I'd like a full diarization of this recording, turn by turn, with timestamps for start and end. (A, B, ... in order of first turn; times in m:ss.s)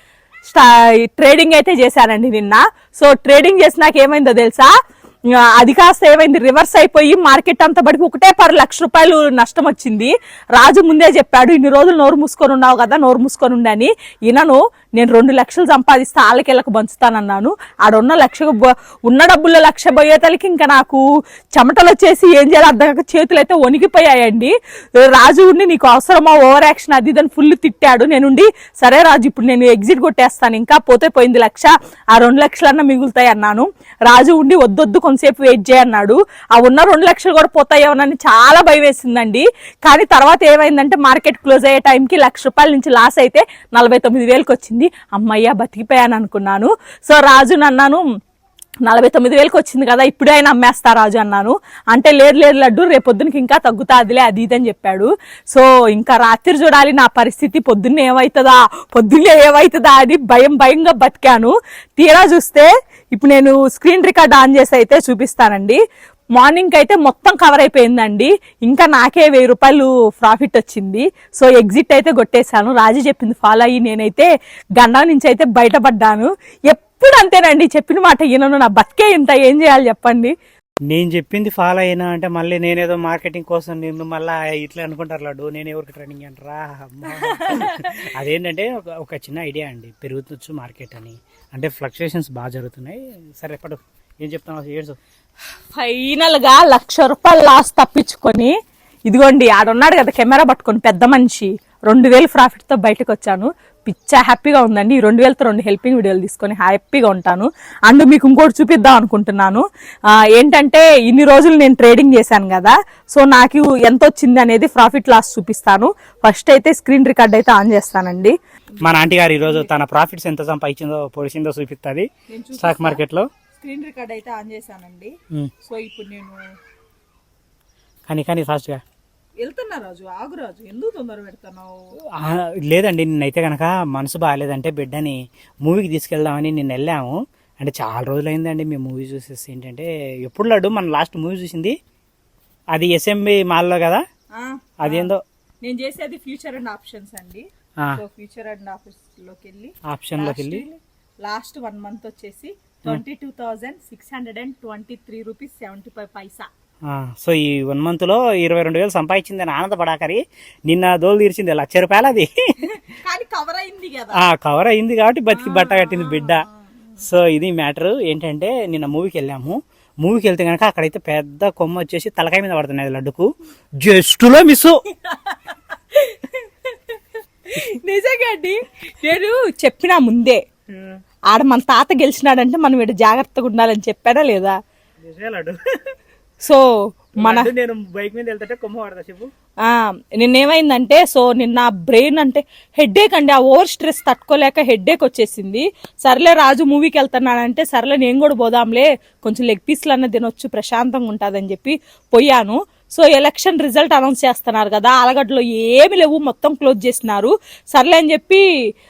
0:00.5-0:04.7 A
0:05.4-0:21.0 A
0:21.5-0:48.0 A
0:48.8-1:05.8 A
1:06.4-1:20.3 A
1:20.9-1:35.0 B
1:27.1-1:28.0 A
1:35.7-1:38.5 A
1:39.1-1:58.8 A
1:58.8-2:03.3 B
1:59.4-1:59.7 A
2:02.3-2:03.0 A
2:03.6-2:06.4 A
2:08.1-2:08.8 B
2:09.4-2:11.8 A
2:12.2-2:21.8 B
2:22.7-2:24.0 B
2:24.3-2:25.1 A
2:24.8-2:25.2 B
2:25.6-2:36.5 A
2:29.9-2:30.6 B
2:36.9-2:42.8 B
2:42.6-2:44.2 A
2:44.2-2:46.4 B
2:45.3-2:46.7 A
2:47.0-2:53.3 B
2:53.8-2:54.8 B
2:54.9-3:00.4 A
3:01.3-3:04.5 A
3:05.0-3:05.9 B
3:06.4-3:06.7 A
3:07.2-3:07.5 A
3:07.2-3:09.3 B
3:09.6-3:28.4 A